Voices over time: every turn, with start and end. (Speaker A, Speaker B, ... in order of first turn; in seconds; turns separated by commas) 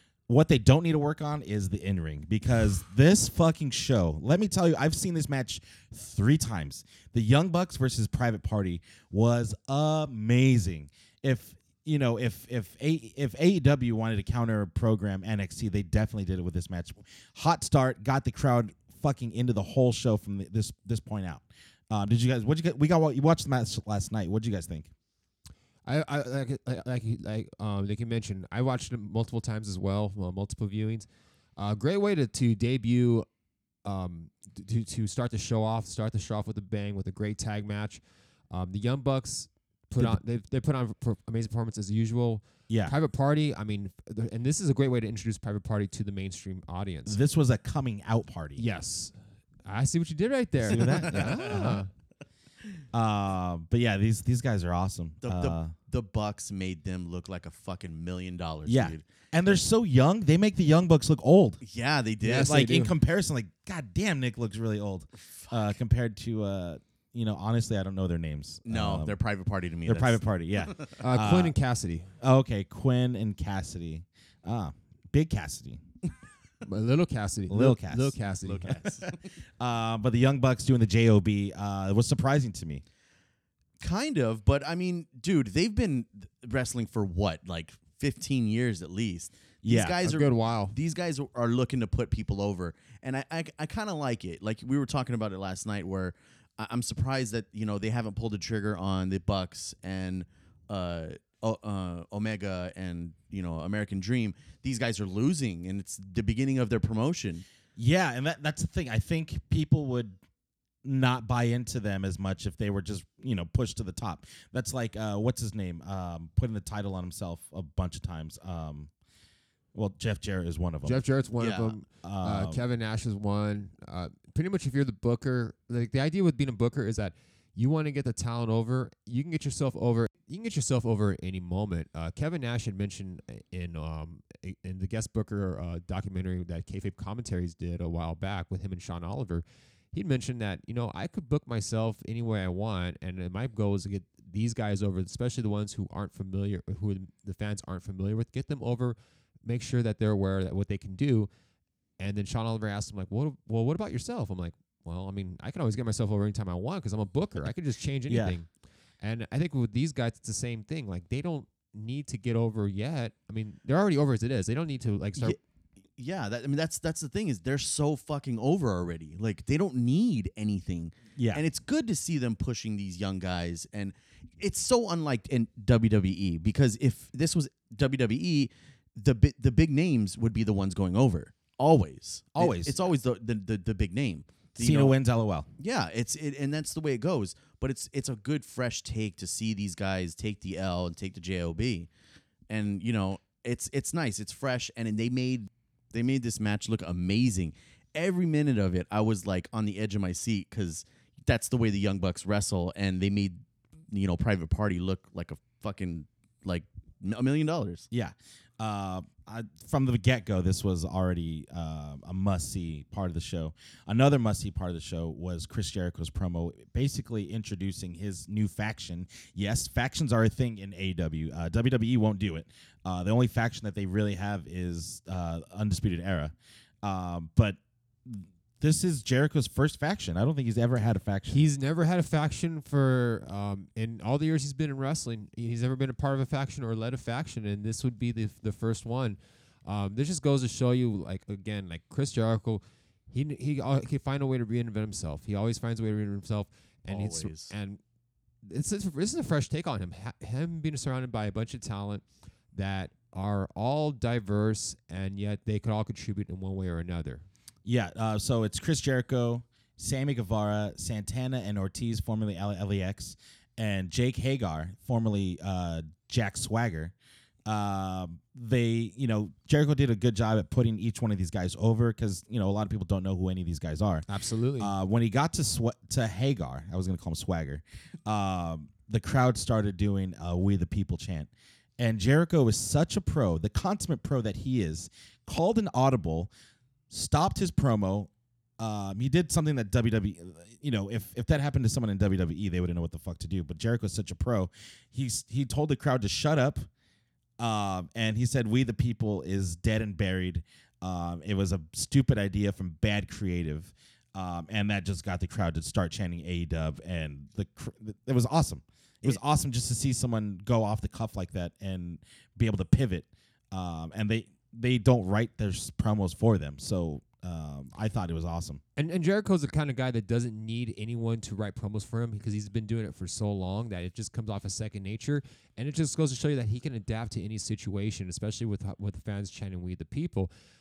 Speaker A: 0.3-24.9, Speaker B: 25.9-33.2, Speaker B: 33.8-47.2, Speaker A: 42.7-42.9, Speaker A: 47.0-48.6, Speaker B: 48.6-49.1, Speaker B: 49.6-51.9, Speaker A: 50.6-51.8, Speaker C: 50.8-51.7, Speaker A: 52.9-55.7, Speaker C: 55.2-59.1, Speaker A: 58.6-61.6, Speaker C: 61.6-62.5, Speaker B: 62.2-62.9, Speaker A: 62.3-69.2, Speaker C: 65.2-65.6, Speaker C: 68.7-71.0, Speaker A: 69.8-71.5, Speaker B: 71.0-72.1, Speaker A: 72.2-75.8, Speaker B: 76.6-78.8, Speaker A: 77.5-82.8, Speaker C: 78.4-79.3, Speaker C: 83.8-107.4, Speaker A: 89.6-90.0, Speaker B: 90.0-90.7, Speaker A: 107.8-110.2, Speaker A: 110.8-118.9, Speaker A: 119.7-121.0, Speaker B: 120.8-151.3, Speaker C: 121.4-121.8, Speaker A: 122.0-122.6, Speaker B: 152.0-158.5, Speaker A: 158.1-158.4, Speaker B: 159.0-165.4, Speaker C: 166.0-184.9, Speaker A: 171.2-171.4, Speaker A: 182.3-182.8, Speaker A: 184.6-185.5, Speaker C: 185.6-191.9, Speaker C: 192.5-203.4, Speaker C: 203.9-207.9, Speaker A: 207.9-231.4, Speaker B: 231.3-247.8, Speaker C: 246.9-247.5, Speaker B: 248.4-257.2, Speaker A: 257.6-266.9, Speaker A: 267.4-274.1, Speaker B: 274.1-274.7, Speaker A: 274.6-286.3, Speaker A: 286.9-296.7, Speaker A: 297.4-318.6, Speaker B: 318.8-330.3